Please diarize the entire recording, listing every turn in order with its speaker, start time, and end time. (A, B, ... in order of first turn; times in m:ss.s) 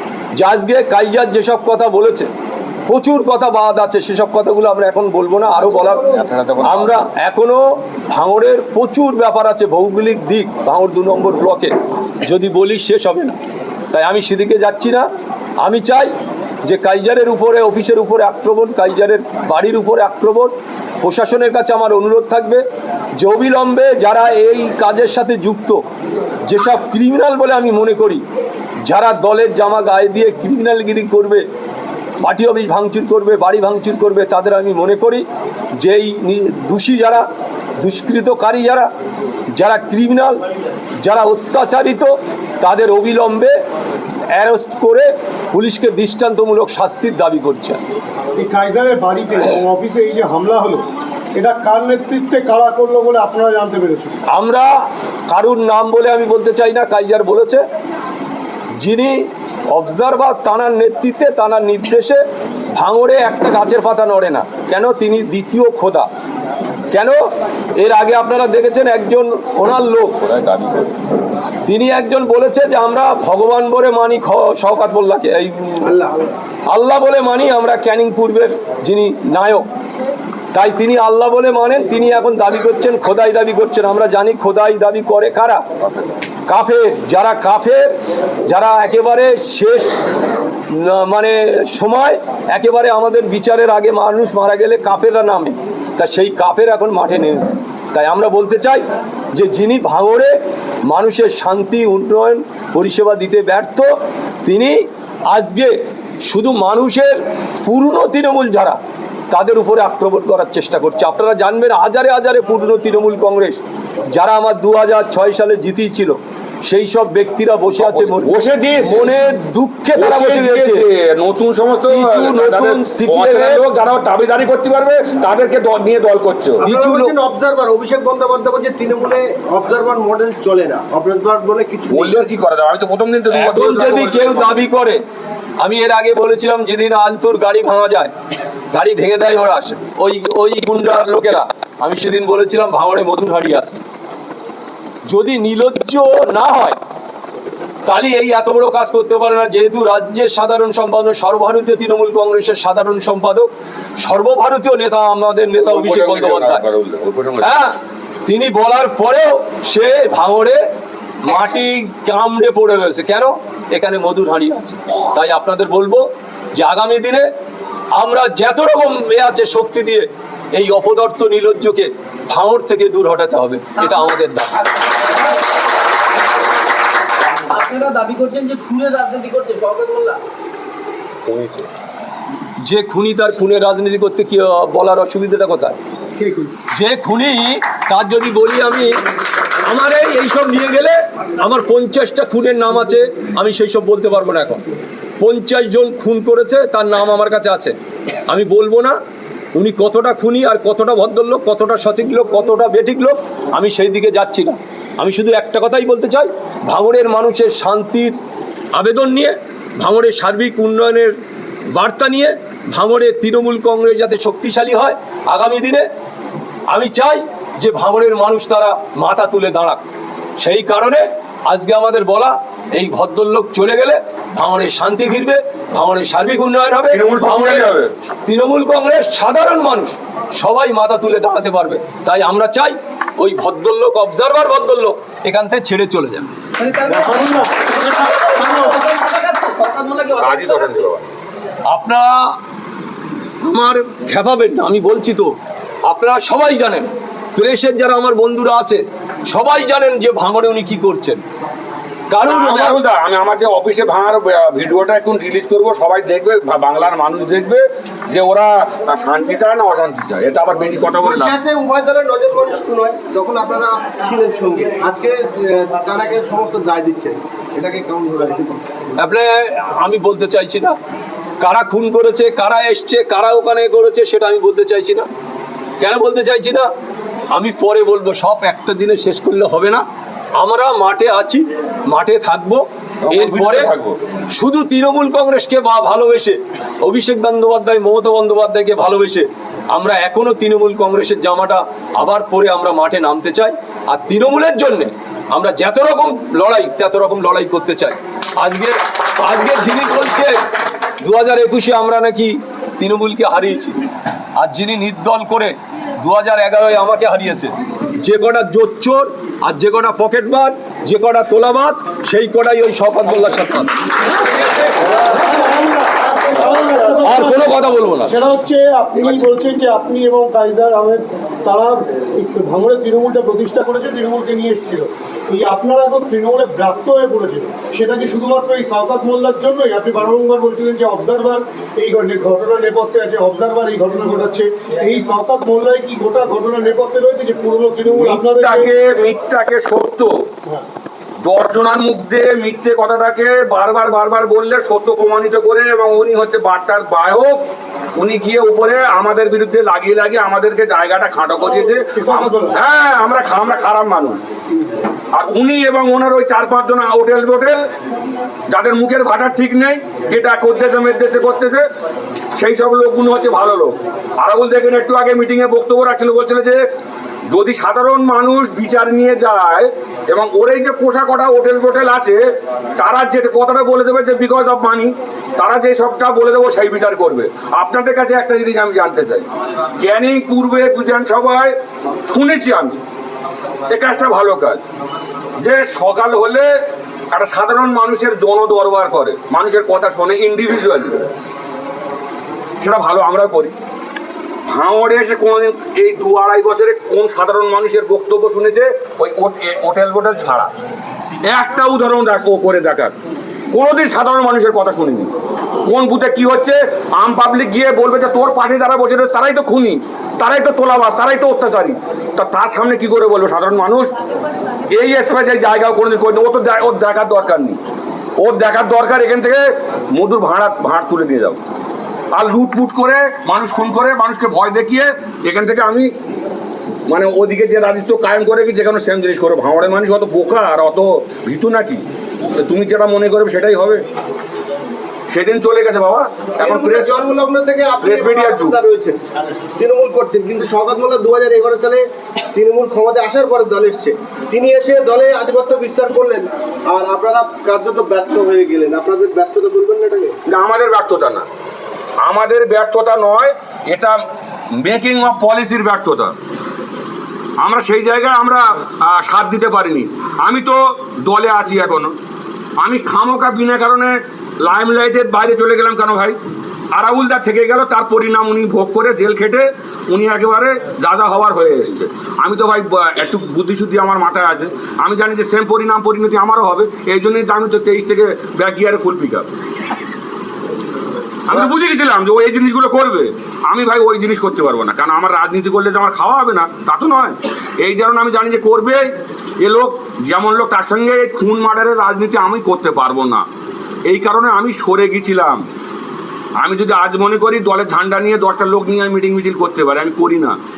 0:00.4-0:02.3 A
0:02.9-0:13.4 A
0:05.8-0:07.0 B
0:13.9-0:15.1 A
0:15.6-0:16.1 A
0:16.6-0:22.6 A
0:23.2-0:25.8 A
0:26.4-0:28.2 A
0:28.8-0:31.4 A
0:32.2-0:35.2 A
0:35.8-0:37.2 A
0:37.8-0:38.9 A
0:39.6-0:40.4 A
0:41.0-0:43.5 A
0:44.3-0:47.8 A
0:48.4-0:54.2 C
0:54.3-0:54.7 A
0:55.3-0:57.6 A
0:58.8-1:02.2 A
1:02.7-1:06.1 A
1:06.9-1:07.2 A
1:07.8-1:10.2 A
1:10.2-1:10.8 B
1:11.6-1:15.9 A
1:15.8-1:16.2 D
1:16.7-1:19.7 A
1:20.5-1:25.6 A
1:26.5-1:27.9 A
1:28.4-1:30.0 A
1:30.7-1:40.3 A
1:40.8-1:43.9 A
1:44.4-1:48.8 A
1:49.3-2:00.8 A
1:57.8-1:59.1 B
1:59.9-2:06.6 B
2:01.9-2:03.6 A
2:06.6-2:07.1 A
2:06.6-2:12.2 D
2:11.9-2:14.6 B
2:13.3-2:15.0 A
2:15.6-2:18.1 A
2:18.7-2:23.8 A
2:25.1-2:26.8 A
2:27.8-2:36.6 A
2:35.6-2:37.5 B
2:37.4-2:40.6 A
2:41.2-2:47.3 A
2:48.0-2:54.8 A
2:53.8-2:54.1 E
2:57.5-3:00.2 E
3:01.3-3:01.7 B
3:02.6-3:05.8 A
3:06.2-3:06.5 C
3:06.7-3:08.9 A
3:09.6-3:14.6 A
3:15.2-3:17.7 A
3:18.3-3:19.0 A
3:19.5-3:28.2 A
3:28.7-3:31.2 A
3:31.7-3:35.8 A
3:36.7-3:39.8 A
3:40.4-3:47.7 A
3:46.9-3:47.9 B
3:48.2-3:56.3 A
3:56.6-4:00.9 E
3:56.9-3:58.7 C
4:00.2-4:01.1 B
4:01.7-4:02.3 A
4:03.4-4:05.3 A
4:05.8-4:11.2 A
4:12.1-4:12.8 A
4:12.2-4:21.4 B
4:21.0-4:28.6 D
4:29.0-4:30.8 A
4:31.4-4:35.1 A
4:35.8-4:36.7 A
4:37.3-4:39.8 A
4:40.4-4:43.7 A
4:43.0-4:44.0 B
4:44.3-5:00.4 A
5:01.0-5:03.8 A
5:04.4-5:13.7 A
5:14.8-5:17.5 C
5:17.0-5:18.1 A
5:18.0-5:38.7 C
5:37.9-5:40.2 B
5:41.2-5:54.2 B
5:51.4-5:52.6 C
5:55.1-5:57.7 B
5:58.5-6:01.6 B
6:02.4-6:06.6 B
6:07.3-6:12.2 B
6:12.8-6:19.2 B
6:19.8-6:22.8 B
6:23.7-6:24.6 B
6:25.4-6:31.0 B
6:32.6-6:33.5 B
6:34.5-6:40.5 B
6:41.2-6:42.9 B
6:43.5-6:45.1 B
6:45.6-6:53.9 B
6:54.7-6:57.6 B
6:58.2-7:01.4 B
7:02.1-7:05.9 B
7:06.9-7:11.8 B
7:12.3-7:13.8 B
7:15.1-7:16.9 B
7:16.4-7:19.0 D
7:17.8-7:18.6 B
7:19.6-7:30.1 D
7:30.3-7:31.2 B
7:32.0-7:34.0 B
7:34.6-7:36.1 B
7:37.4-7:41.9 B
7:42.6-7:46.2 B
7:46.7-7:59.3 B
8:01.3-8:13.2 B
8:13.9-8:15.4 B
8:16.4-8:20.4 B